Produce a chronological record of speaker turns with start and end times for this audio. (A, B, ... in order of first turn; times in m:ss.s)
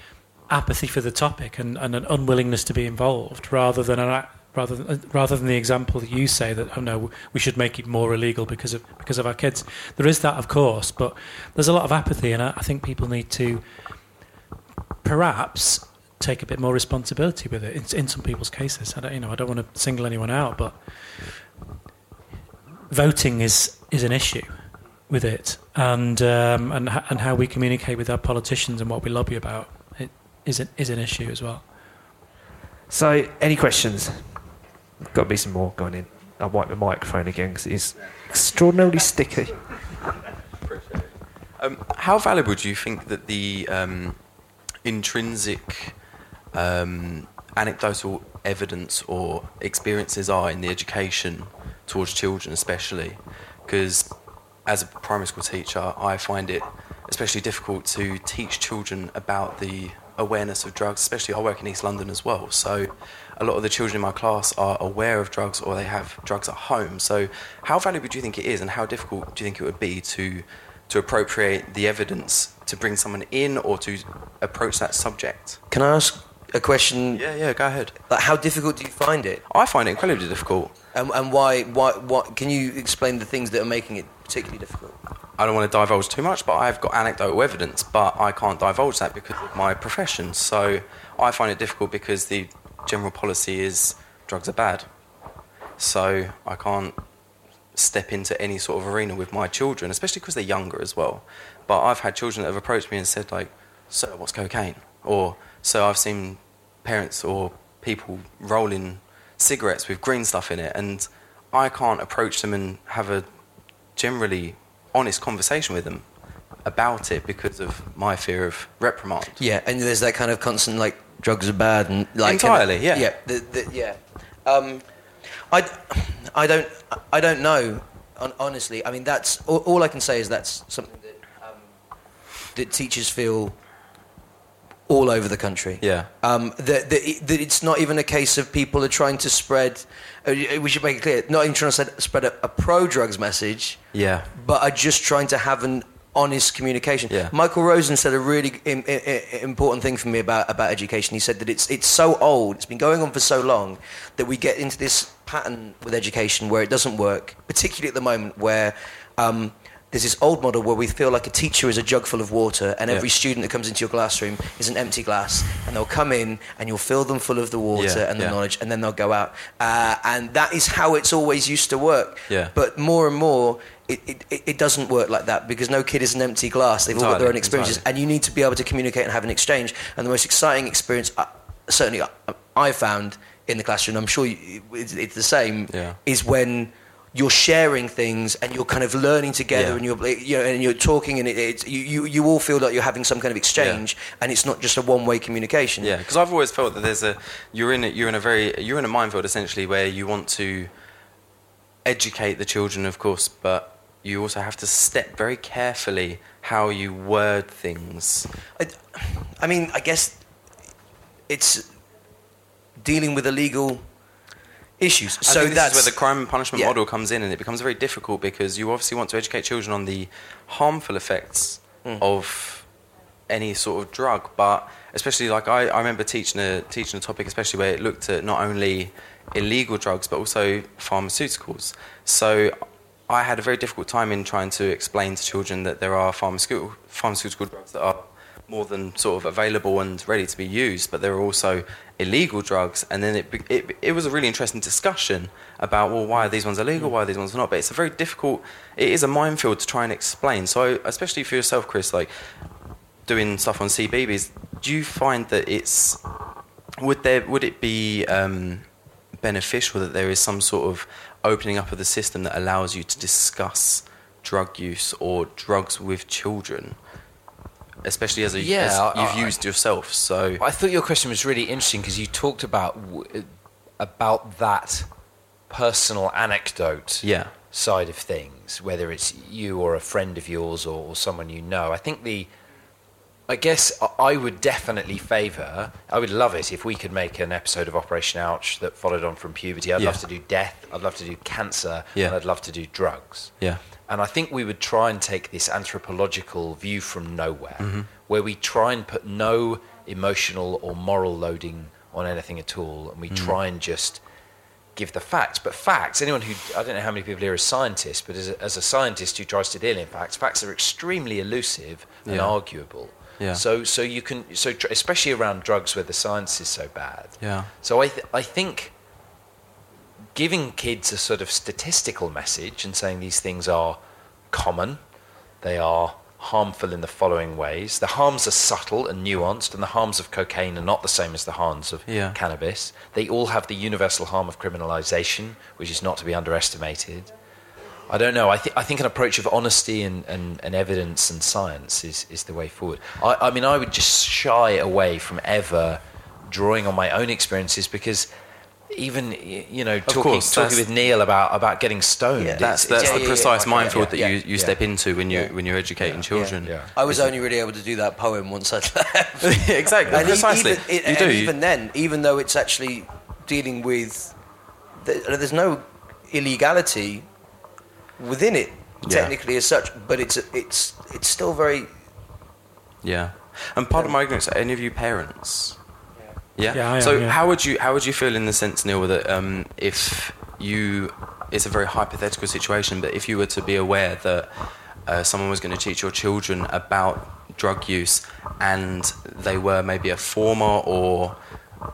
0:00.5-0:13.6 A
0:15.0-0:20.8 A
0:22.9-0:31.6 A
0:32.9-0:39.6 B
0:40.7-0:44.2 C
0:44.8-0:45.9 C
0:46.5-0:54.1 C
0:54.6-1:15.6 C
1:15.7-1:17.2 D
1:17.1-1:17.9 C
1:18.1-1:19.4 D
1:19.5-1:20.7 C
1:20.9-1:25.0 D
1:25.4-1:34.9 C
1:35.8-1:37.0 C
1:37.7-1:53.2 C
1:54.0-1:56.0 C
1:56.6-1:59.4 C
1:59.4-2:04.8 D
2:02.2-2:03.1 C
2:05.5-2:11.6 D
2:12.5-2:13.5 D
2:14.9-2:23.8 D
2:15.8-2:16.1 C
2:23.9-2:24.3 C
2:24.3-3:16.0 D
2:47.7-2:48.4 C
2:57.0-2:57.8 C
2:57.4-2:57.7 E
3:05.7-3:06.0 C
3:09.5-3:09.8 C
3:13.6-3:13.8 C
3:15.8-3:20.7 C
3:21.8-3:28.3 C
3:28.6-3:30.2 D
3:31.3-3:31.7 D
3:32.8-3:33.8 D
3:34.8-3:36.0 D
3:35.2-3:42.7 C
3:43.3-4:12.1 C
4:13.0-4:16.0 C
4:16.8-4:26.8 C
4:27.8-4:30.4 C
4:28.3-4:29.4 E
4:30.4-4:34.9 E
4:35.5-4:42.3 E
4:37.0-4:37.3 C
4:43.3-5:04.0 E
4:49.8-4:50.0 C
4:57.6-4:57.9 C
5:03.1-5:03.4 C
5:04.8-5:18.7 E
5:12.0-5:12.4 C
5:17.2-5:17.5 C
5:20.1-5:23.8 E
5:24.3-5:24.8 E
5:25.4-5:37.1 E
5:31.9-5:32.2 C
5:37.9-5:48.1 E
5:48.7-5:54.6 E
5:49.8-5:50.6 C
5:52.2-5:54.2 D
5:52.4-5:56.6 C
5:55.8-5:57.1 E
5:56.1-6:04.2 D
5:59.2-6:01.3 C
5:59.9-6:00.1 E
6:04.8-6:07.1 D
6:08.0-6:11.7 D
6:08.8-6:09.1 C
6:12.8-6:15.6 C
6:16.3-6:24.3 C
6:16.5-6:17.2 A
6:24.8-6:31.1 C